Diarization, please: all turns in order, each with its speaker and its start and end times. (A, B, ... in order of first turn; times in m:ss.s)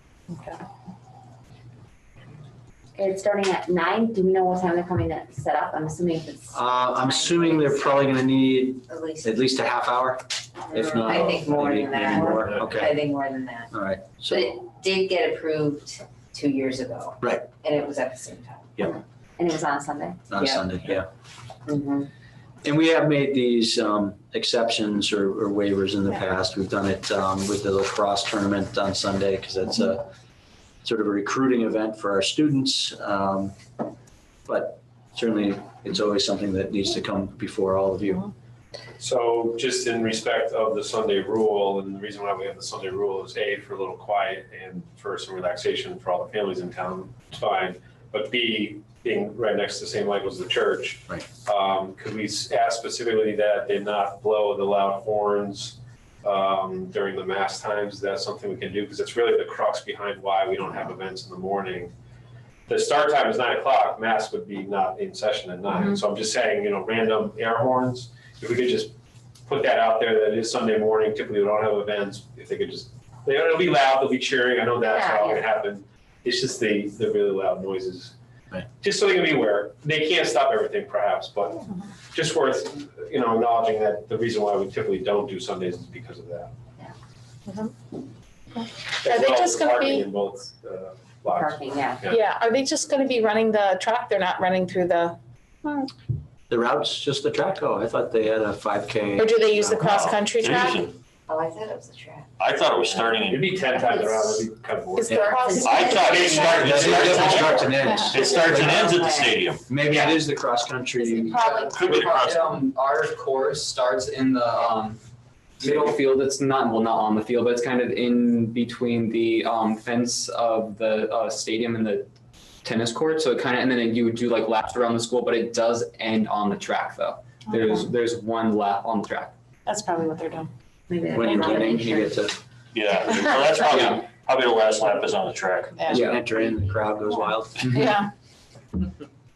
0:00.3-0:00.6 A
0:03.0-0:08.1 B
0:06.5-0:13.1 C
0:08.9-0:09.4 D
0:10.7-0:13.7 D
0:12.0-0:12.6 E
0:13.7-0:14.5 C
0:14.3-0:18.9 D
0:17.2-0:17.5 C
0:19.4-0:20.2 B
0:20.3-0:21.1 C
0:20.4-0:20.6 D
0:21.7-0:22.1 D
0:22.6-0:30.1 C
0:30.8-0:33.6 C
0:34.5-0:38.3 C
0:39.0-1:01.9 E
1:02.7-1:08.9 E
1:09.5-1:18.2 E
1:18.8-1:26.5 E
1:27.5-1:27.7 A
1:28.6-1:30.1 A
1:29.0-1:32.2 E
1:31.3-1:31.9 D
1:32.1-1:35.9 A
1:36.5-1:39.8 C
1:39.2-1:40.9 A
1:39.8-1:40.9 F
1:41.3-1:42.3 D
1:42.4-1:43.5 F
1:42.9-1:45.2 E
1:44.9-1:45.8 A
1:45.1-1:45.4 C
1:45.2-1:46.5 B
1:45.6-1:49.6 F
1:46.1-1:47.0 E
1:46.4-1:49.1 C
1:47.6-1:48.1 A
1:48.7-1:49.3 D
1:49.7-1:51.6 C
1:51.0-1:51.7 B
1:51.3-1:51.7 A
1:51.7-1:52.5 F
1:51.8-1:55.0 G
1:55.6-2:02.1 G
2:02.6-2:09.3 G
2:07.6-2:07.8 A
2:09.7-2:10.5 A
2:10.9-2:12.2 B
2:11.1-2:12.4 C
2:11.2-2:11.7 A
2:12.7-2:15.9 F
2:13.8-2:14.0 G
2:15.8-2:16.1 A
2:15.8-2:17.8 C
2:17.7-2:18.1 A